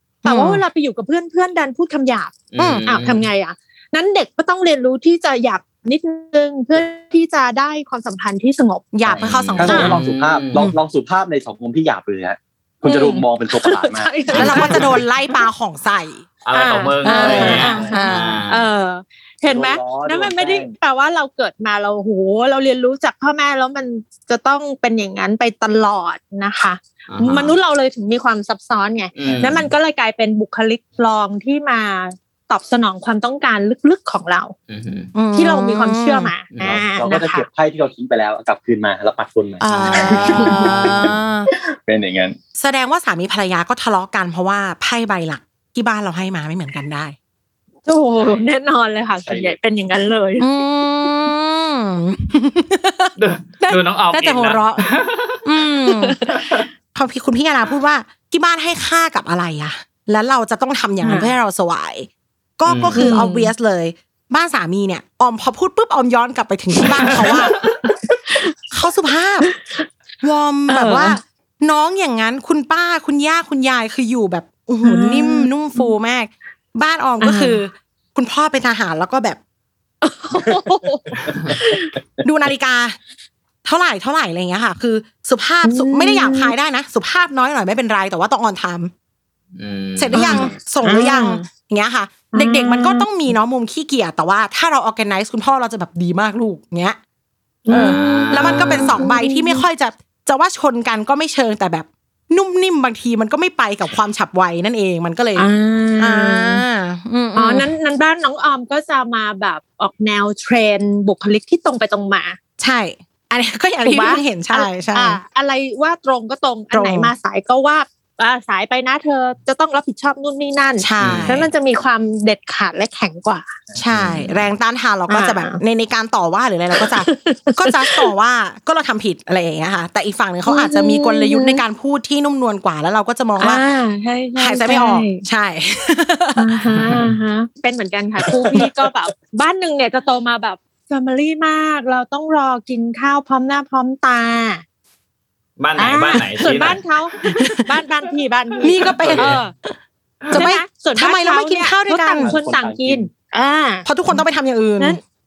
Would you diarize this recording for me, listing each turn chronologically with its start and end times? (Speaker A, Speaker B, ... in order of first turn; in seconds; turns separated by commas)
Speaker A: 0.2-2.3, Speaker B: 0.2-0.6, Speaker C: 2.5-3.3, Speaker B: 2.6-2.9, Speaker A: 2.9-9.0, Speaker B: 8.9-10.0, Speaker D: 9.1-14.9, Speaker C: 9.2-10.7, Speaker A: 9.7-9.9, Speaker A: 12.8-15.4, Speaker C: 14.3-15.0, Speaker B: 14.3-16.2, Speaker C: 16.4-18.7, Speaker A: 16.5-34.5, Speaker B: 17.0-18.4, Speaker D: 17.2-17.9, Speaker D: 19.5-20.7, Speaker C: 27.1-27.6, Speaker C: 29.2-29.7, Speaker D: 29.2-29.5, Speaker C: 34.7-35.1, Speaker B: 35.1-36.3, Speaker A: 35.3-37.5, Speaker C: 36.5-36.8, Speaker D: 36.6-42.4, Speaker B: 39.6-41.5, Speaker C: 39.7-41.1, Speaker B: 42.6-47.1, Speaker A: 47.9-50.5, Speaker D: 49.2-49.5, Speaker B: 50.4-54.9, Speaker C: 53.2-55.4, Speaker B: 55.4-56.2, Speaker A: 56.0-56.4, Speaker B: 56.9-67.6, Speaker A: 61.0-61.3, Speaker C: 62.7-63.2, Speaker A: 62.9-63.5, Speaker A: 67.0-68.5, Speaker B: 68.7-69.5, Speaker A: 69.5-69.9, Speaker B: 70.2-79.4, Speaker A: 70.7-71.2, Speaker A: 74.8-75.9, Speaker A: 77.2-77.6, Speaker A: 80.0-81.9, Speaker D: 81.1-81.5, Speaker B: 82.2-83.0, Speaker B: 83.6-88.9, Speaker A: 85.7-86.5, Speaker C: 89.6-90.5, Speaker B: 90.0-97.0, Speaker A: 90.1-91.5, Speaker A: 92.3-93.1, Speaker A: 97.7-99.7, Speaker C: 97.7-99.1, Speaker B: 97.7-105.5, Speaker A: 105.4-106.6, Speaker B: 106.0-107.7, Speaker A: 107.3-112.4, Speaker B: 112.6-115.2, Speaker A: 113.8-123.5, Speaker B: 116.7-117.1, Speaker B: 120.8-121.5, Speaker C: 121.0-121.3, Speaker B: 123.8-133.6, Speaker C: 123.9-124.4, Speaker A: 125.1-125.6, Speaker A: 126.8-128.1, Speaker A: 130.5-131.6, Speaker A: 133.4-135.2, Speaker B: 134.4-136.6, Speaker A: 136.4-144.6, Speaker C: 145.6-146.8, Speaker A: 145.8-149.5, Speaker B: 148.6-149.8, Speaker C: 148.9-149.4, Speaker A: 150.3-154.2, Speaker B: 150.3-152.4, Speaker D: 152.2-153.1, Speaker B: 153.9-155.0